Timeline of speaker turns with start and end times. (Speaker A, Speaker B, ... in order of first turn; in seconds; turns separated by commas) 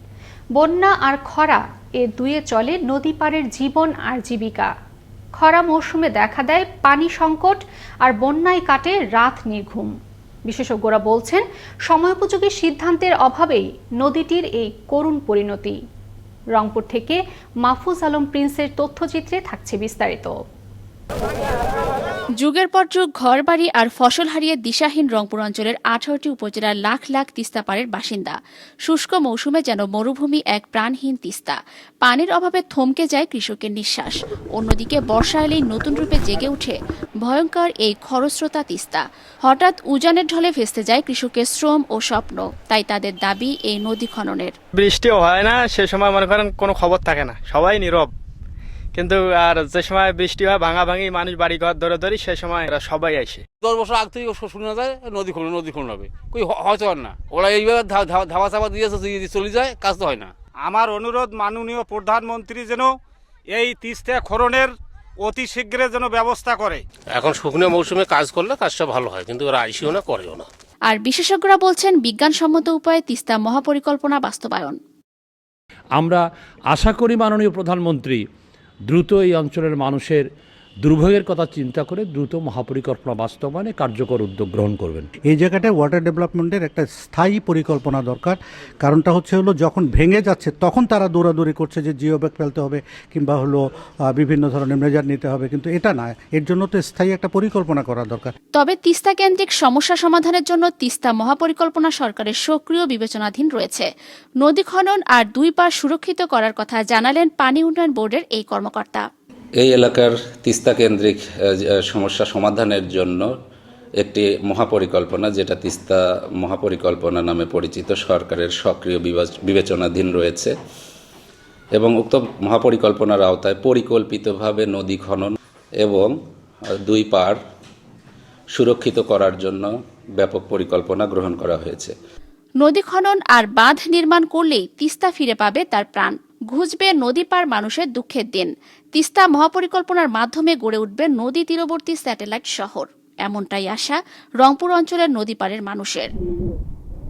Speaker A: 0.5-4.7, Speaker A: 5.4-9.9, Speaker A: 10.4-15.8, Speaker A: 16.5-20.4, Speaker B: 22.4-44.5, Speaker C: 44.7-48.1, Speaker C: 48.9-53.4, Speaker D: 53.6-60.3, Speaker E: 60.6-62.9, Speaker E: 63.5-66.8, Speaker F: 67.1-70.5, Speaker B: 70.9-74.8, Speaker G: 75.9-78.2, Speaker G: 78.9-80.3, Speaker G: 80.8-85.1, Speaker H: 85.3-98.3, Speaker B: 98.5-103.9, Speaker B: 104.4-109.0, Speaker I: 109.6-113.3, Speaker I: 114.0-120.5, Speaker I: 121.7-126.1, Speaker I: 126.8-127.4, Speaker I: 128.5-131.9, Speaker B: 132.6-146.1